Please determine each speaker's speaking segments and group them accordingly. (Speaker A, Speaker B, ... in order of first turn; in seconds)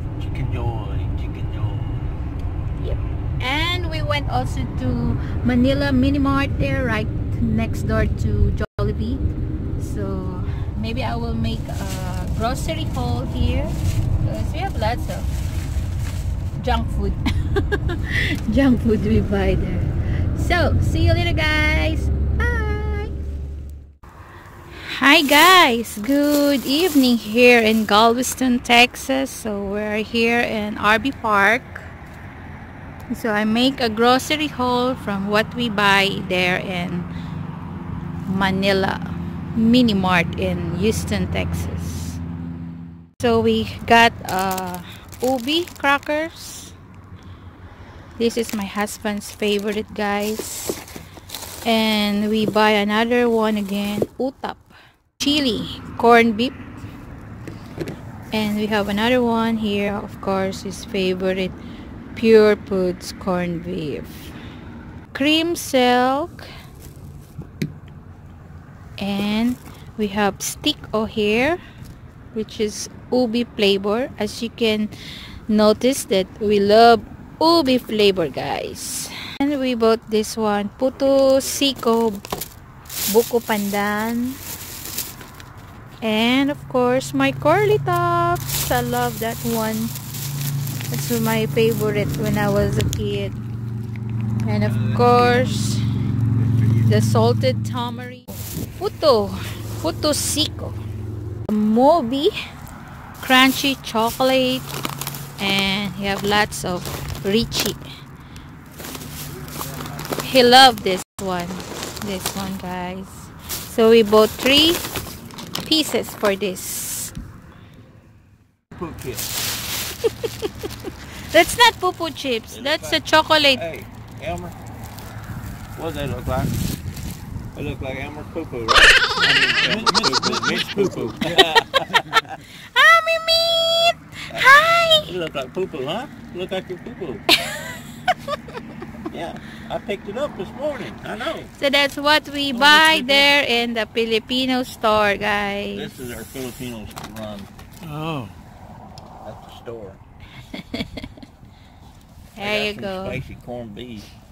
Speaker A: 0.2-2.0, 80.9-81.8, 94.6-96.7, 118.8-119.3, 122.5-124.5, 125.7-126.6, 127.5-132.4, 134.3-137.2, 139.1-141.5, 145.7-147.5, 149.2-150.0, 152.4-154.1
Speaker B: 2.8-9.2, 9.8-15.3, 16.6-23.1, 24.9-31.9, 33.1-37.1, 38.3-42.2, 43.2-46.7, 48.2-50.8, 51.6-56.6, 58.3-61.6, 62.1-64.3, 65.1-66.5, 69.0-71.6, 72.3-74.9, 75.5-82.2, 83.1-84.4, 86.0-89.9, 90.9-93.4, 94.4-95.8, 96.8-100.8, 101.5-102.3, 103.2-104.7, 105.4-107.8, 110.2-117.1, 120.0-123.6, 132.4-135.2, 137.3-137.8, 141.5-145.9, 150.4-151.1, 152.3-153.2
Speaker C: 129.2-131.6, 142.5-143.5, 147.8-148.3